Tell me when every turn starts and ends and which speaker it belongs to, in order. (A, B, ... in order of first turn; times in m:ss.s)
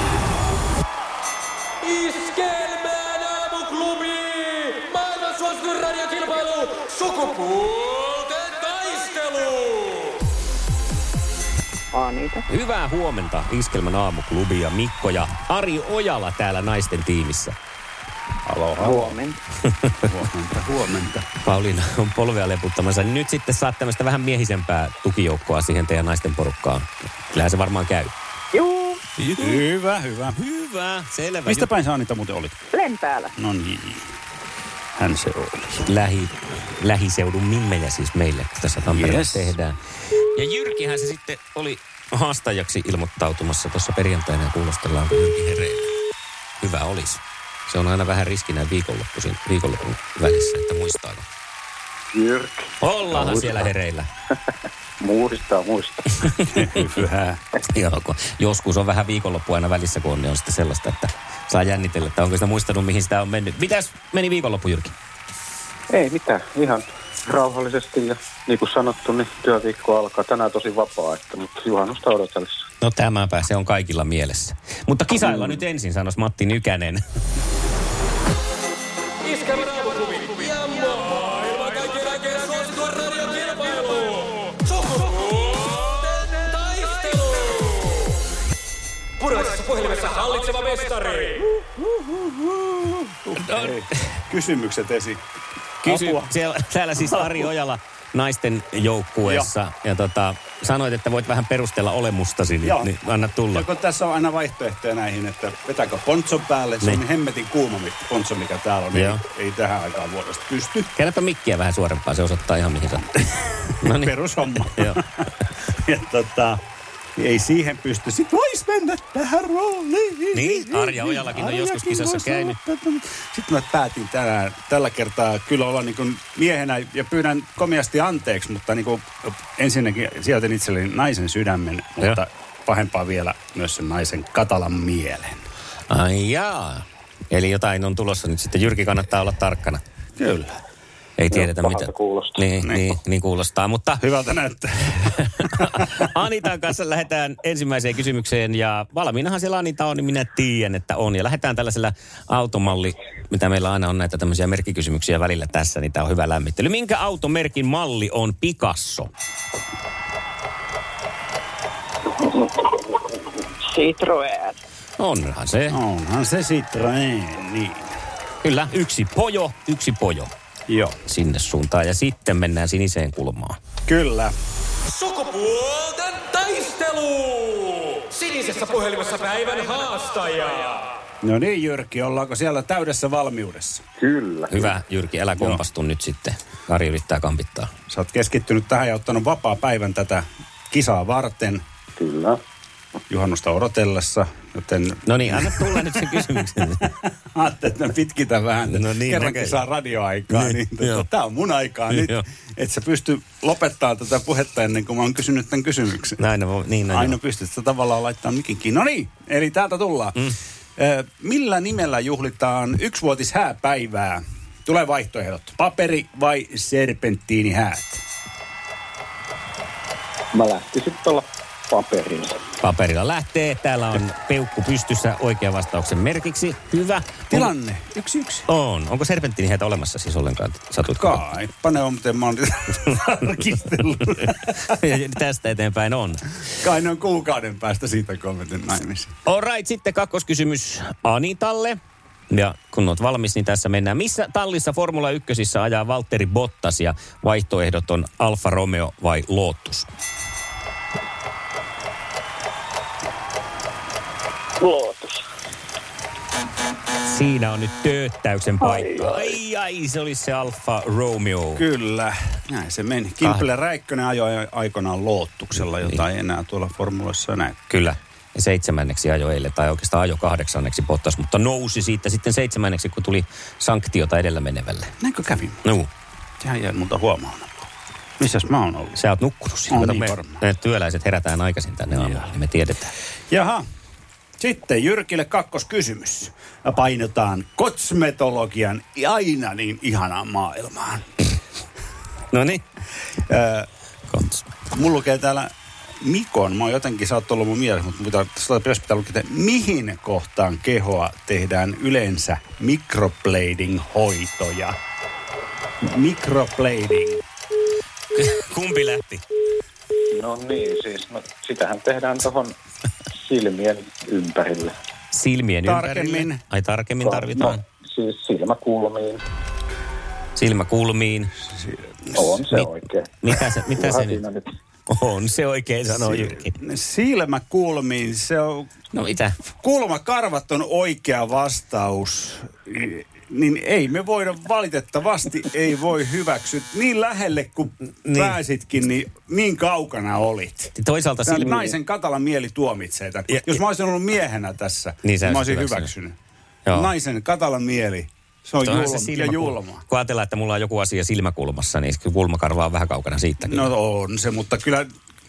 0:01.8-0:10.1 A
0:11.9-0:12.4 B
0:12.5-0:17.6 C
0:18.4-0:19.2 D
0:18.8-0:19.4 B
0:20.0-0:21.3 D
0:21.4-0:28.1 C
0:28.5-0:29.0 B
0:29.2-0:30.4 D
0:30.3-0:31.7 C
0:31.4-0:32.6 D
0:32.7-0:33.3 B
0:33.3-0:34.1 D
0:35.0-0:35.8 D
0:35.8-0:39.8 C
0:38.8-0:39.5 D
0:40.3-0:45.9 C
0:46.6-0:51.2 C
0:52.1-0:53.5 E
0:52.8-0:54.1 C
0:55.0-0:56.2 E
0:56.5-0:57.4 D
0:57.6-1:04.9 C
1:05.9-1:12.6 E
1:12.8-1:17.0 C
1:19.2-1:28.0 A
1:29.2-1:31.4 A
1:31.5-1:35.2 D
1:33.4-1:33.7 C
1:35.8-1:36.3 D
1:35.8-1:43.6 C
1:37.0-1:37.5 D
1:39.2-1:39.5 D
1:42.6-1:42.9 D
1:43.5-1:50.9 D
1:48.9-1:49.2 C
1:51.0-1:53.2 C
1:53.8-1:54.2 C
1:53.8-1:56.6 D
1:54.7-1:55.0 C
1:57.2-2:15.4 D
2:00.3-2:02.6 C
2:15.9-2:19.8 C
2:20.2-2:20.5 D
2:21.2-2:24.0 C
2:21.3-2:22.4 E
2:22.6-2:22.9 D
2:24.0-2:25.7 D
2:25.2-2:39.1 C
2:43.7-2:44.6 B
2:45.0-2:45.8 C
2:45.7-2:47.9 D
2:48.4-2:50.3 C
2:50.7-2:51.0 D
2:51.0-2:53.6 C
2:53.9-2:54.3 D
2:54.9-3:00.9 A
3:01.2-3:03.8 D
3:04.0-3:04.7 E
3:04.5-3:07.7 C
3:05.4-3:05.6 D
3:07.9-3:11.6 D
3:12.0-3:12.4 E
3:13.1-3:26.2 D
3:15.0-3:16.8 C
3:18.7-3:19.6 C
3:20.3-3:21.0 C
3:21.9-3:22.2 C
3:26.2-3:27.2 C
3:26.9-3:38.0 D
3:40.3-3:42.4 E
3:42.6-3:47.5 C
3:47.3-3:48.5 D
3:48.5-3:51.3 C
3:50.9-3:54.8 D
3:54.2-3:56.2 C
3:56.6-3:59.1 D
3:59.2-4:01.8 C
4:02.3-4:09.9 C
4:14.6-4:15.2 B
4:17.0-4:21.6 C
4:21.5-4:27.6 D
4:27.7-4:34.9 C
4:35.0-4:35.6 D
4:35.6-4:35.9 C
4:36.4-4:37.6 D
4:38.2-4:39.0 D
4:38.9-4:42.9 C
4:39.7-4:40.4 D
4:43.3-4:43.6 D
4:44.4-4:51.0 D
4:52.3-4:52.6 C
4:53.3-4:53.7 D
4:54.1-4:54.6 C
4:54.7-5:04.8 D
5:05.8-5:07.2 D
5:08.1-5:09.2 C
5:10.1-5:12.6 E
5:13.1-5:14.7 E
5:15.1-5:17.6 C
5:15.6-5:16.4 D
5:17.0-5:19.2 E
5:20.3-5:21.3 C
5:21.6-5:22.3 D
5:22.1-5:23.1 E
5:22.4-5:24.2 C
5:23.8-5:24.4 E
5:24.9-5:26.5 C
5:26.0-5:28.7 D
5:28.9-5:29.4 C
5:29.5-5:40.7 D
5:38.0-5:38.4 C
5:40.7-5:41.8 C
5:41.2-5:46.2 D
5:43.3-5:43.6 C
5:45.0-5:45.9 C
5:46.6-5:46.9 C
5:46.7-5:49.8 D
5:48.6-5:53.7 C
5:53.4-5:54.9 D